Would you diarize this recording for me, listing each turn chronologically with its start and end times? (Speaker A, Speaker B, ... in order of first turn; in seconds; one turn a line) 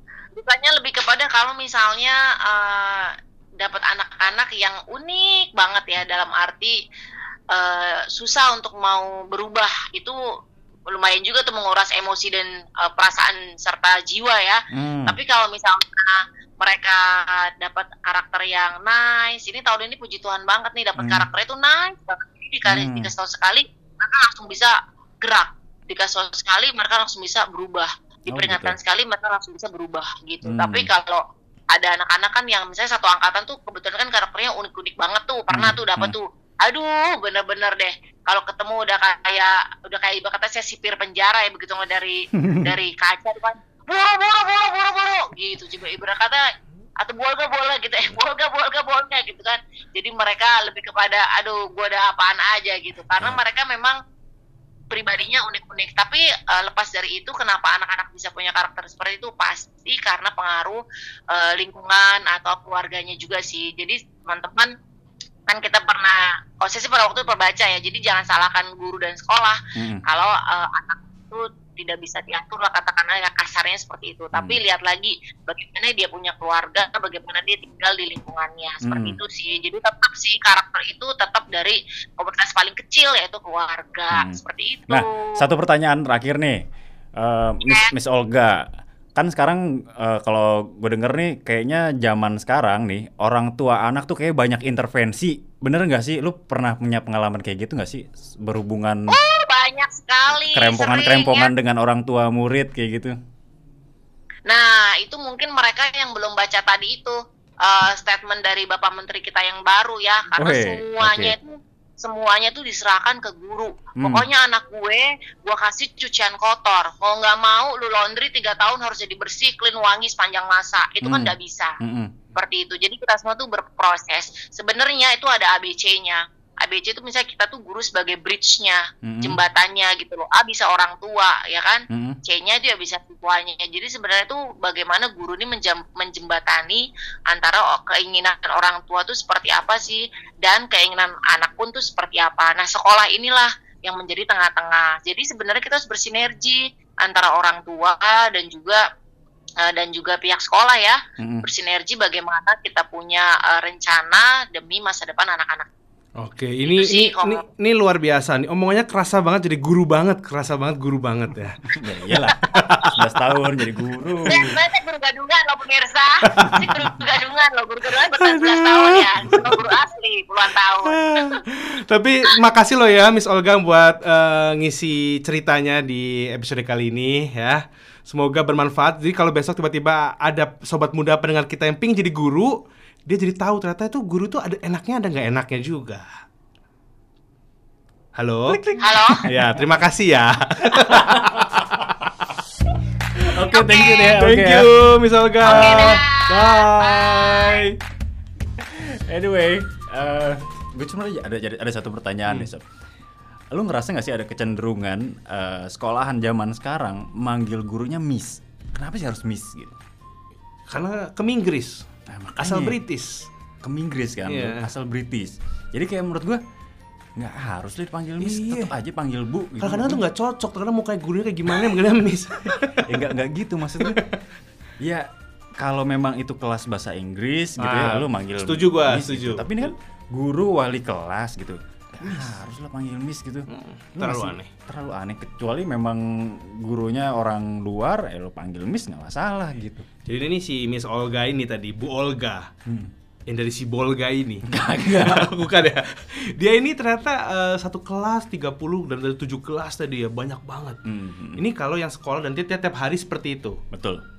Speaker A: 0.3-6.8
Speaker A: 7.5-10.2
Speaker A: 10.9-46.5
Speaker B: 14.7-15.2
Speaker B: 21.0-21.3
Speaker B: 22.6-23.1
Speaker B: 28.3-28.8
Speaker B: 30.4-30.9
Speaker B: 35.5-36.1
Speaker B: 42.4-42.7
Speaker A: 47.0-54.0
Speaker A: 54.9-60.8
Speaker A: 61.3-64.7
Speaker A: 65.5-85.5
Speaker B: 69.8-70.0
Speaker B: 74.3-74.6
Speaker B: 78.8-79.2
Speaker B: 84.1-84.4
Speaker B: 84.9-86.6
Speaker B: 87.2-99.2
Speaker A: 87.6-87.9
Speaker A: 99.1-101.5
Speaker B: 100.3-103.2
Speaker A: 104.5-121.8
Speaker B: 110.4-111.3
Speaker B: 114.0-114.3
Speaker B: 121.0-122.1
Speaker A: 122.3-148.8
Speaker B: 129.0-129.4
Speaker B: 131.9-132.2
Speaker A: 149.6-155.7
Speaker B: 151.2-151.4
Speaker C: 156.2-161.7
Speaker A: 156.7-157.4
Speaker B: 161.8-164.6
Speaker A: 162.3-162.9
Speaker C: 162.4-163.0
Speaker A: 164.3-171.2
Speaker C: 166.3-166.8
Speaker C: 168.1-169.6
Speaker C: 170.8-186.1
Speaker C: 188.1-188.6
Speaker B: 188.5-189.4
Speaker A: 188.8-189.2
Speaker C: 189.2-191.3
Speaker B: 190.9-191.9
Speaker B: 193.2-194.7
Speaker C: 193.2-197.8
Speaker A: 195.4-197.7
Speaker B: 195.5-196.0
Speaker B: 198.6-202.6
Speaker B: 203.5-209.8
Speaker C: 210.7-211.8
Speaker B: 212.1-212.8
Speaker C: 212.4-213.3
Speaker B: 213.6-216.4
Speaker C: 214.2-214.7
Speaker B: 217.2-220.0
Speaker C: 218.2-218.7
Speaker C: 219.6-223.0
Speaker B: 222.8-224.0
Speaker B: 224.8-239.8
Speaker C: 227.6-229.7
Speaker C: 232.0-232.4
Speaker C: 233.5-234.5
Speaker C: 240.1-242.5
Speaker B: 242.7-242.9
Speaker C: 243.3-250.8
Speaker B: 244.4-245.3
Speaker B: 250.8-251.4
Speaker C: 251.3-253.6
Speaker B: 253.7-254.0